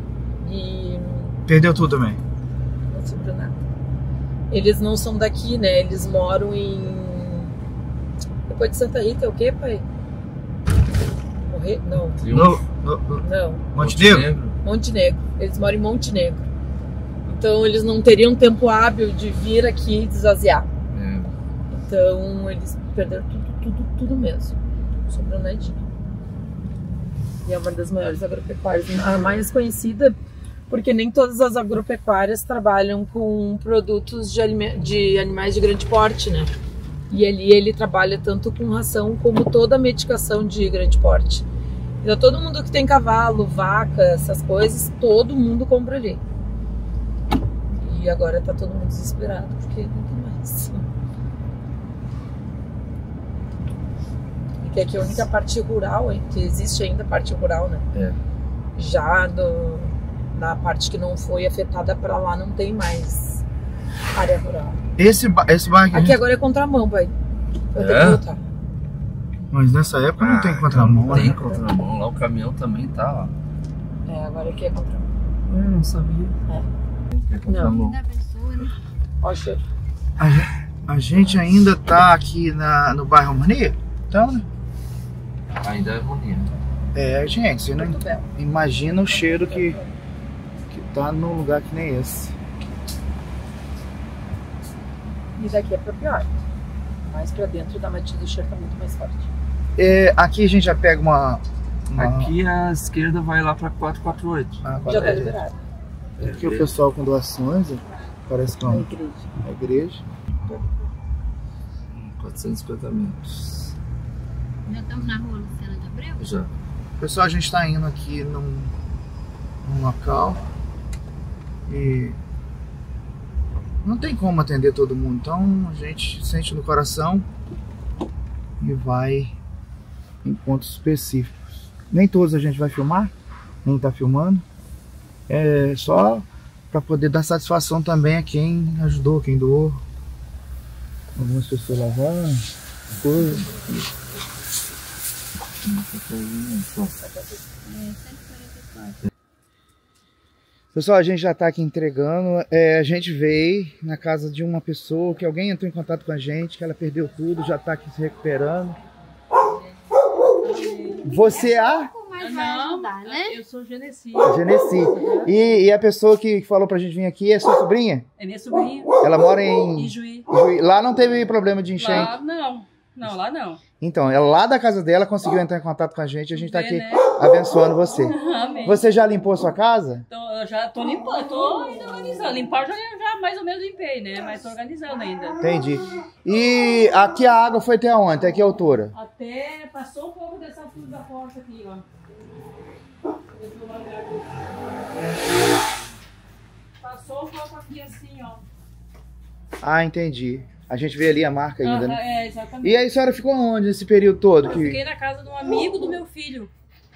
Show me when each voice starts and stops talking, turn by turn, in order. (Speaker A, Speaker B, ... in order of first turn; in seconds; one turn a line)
Speaker A: 0.4-1.4
Speaker B: 1.5-2.2
Speaker A: 2.9-3.6
Speaker A: 4.5-7.5
Speaker A: 8.5-9.8
Speaker A: 11.5-12.2
Speaker C: 12.2-12.6
Speaker B: 12.3-14.3
Speaker A: 13.2-13.7
Speaker C: 13.8-14.6
Speaker A: 14.6-16.5
Speaker A: 17.2-20.7
Speaker C: 20.9-21.3
Speaker A: 21.7-24.6
Speaker A: 25.1-25.8
Speaker A: 27.4-30.2
Speaker A: 30.7-36.5
Speaker A: 37.1-41.5
Speaker A: 42.0-46.2
Speaker A: 47.7-50.9
Speaker A: 54.6-57.9
Speaker C: 57.9-58.2
Speaker A: 58.8-63.4
Speaker A: 64.1-64.8
Speaker B: 65.0-66.2
Speaker A: 65.9-67.1
Speaker A: 67.7-68.4
Speaker C: 67.8-68.2
Speaker B: 69.5-71.5
Speaker C: 70.2-73.3
Speaker A: 74.1-75.1
Speaker C: 75.5-76.4
Speaker C: 77.1-78.0
Speaker A: 77.5-77.9
Speaker D: 77.8-78.5
Speaker A: 79.2-79.6
Speaker B: 80.2-84.5
Speaker C: 85.6-86.5
Speaker B: 86.9-89.8
Speaker A: 87.7-88.2
Speaker A: 89.1-89.9
Speaker B: 90.7-92.3
Speaker A: 95.4-96.4
Speaker A: 97.1-99.3
Speaker B: 99.8-102.3
Speaker C: 102.0-104.7
Speaker B: 104.6-105.4
Speaker A: 104.9-105.6
Speaker C: 106.2-106.8
Speaker B: 106.2-108.9
Speaker A: 108.7-109.3
Speaker B: 109.4-110.0
Speaker C: 111.9-113.7
Speaker D: 114.7-116.2
Speaker C: 116.2-116.5
Speaker B: 117.0-118.7
Speaker B: 119.6-120.5
Speaker B: 121.7-122.2
Speaker B: 123.8-127.3
Speaker B: 128.6-129.4
Speaker B: 130.2-133.1
Speaker B: 133.6-134.4
Speaker B: 135.3-139.8
Speaker B: 141.2-142.5
Speaker B: 143.0-143.5
Speaker C: 143.0-143.9
Speaker C: 145.6-146.9
Speaker A: 146.9-147.5
Speaker D: 147.7-149.0
Speaker B: 150.7-158.8
Speaker A: 159.5-159.8
Speaker E: 160.4-161.4
Speaker B: 161.0-161.9
Speaker D: 161.1-163.4
Speaker E: 162.2-165.4
Speaker B: 164.2-168.1
Speaker E: 168.2-169.0
Speaker B: 169.0-172.2
Speaker E: 169.7-170.3
Speaker E: 171.8-173.6
Speaker B: 173.8-180.1
Speaker E: 176.3-177.1
Speaker E: 178.0-178.9
Speaker E: 180.1-185.4
Speaker B: 185.4-188.9
Speaker E: 188.9-191.8
Speaker E: 193.4-194.3
Speaker E: 196.8-198.4
Speaker B: 199.6-202.0
Speaker E: 201.6-202.9
Speaker B: 202.6-204.8
Speaker E: 204.4-206.5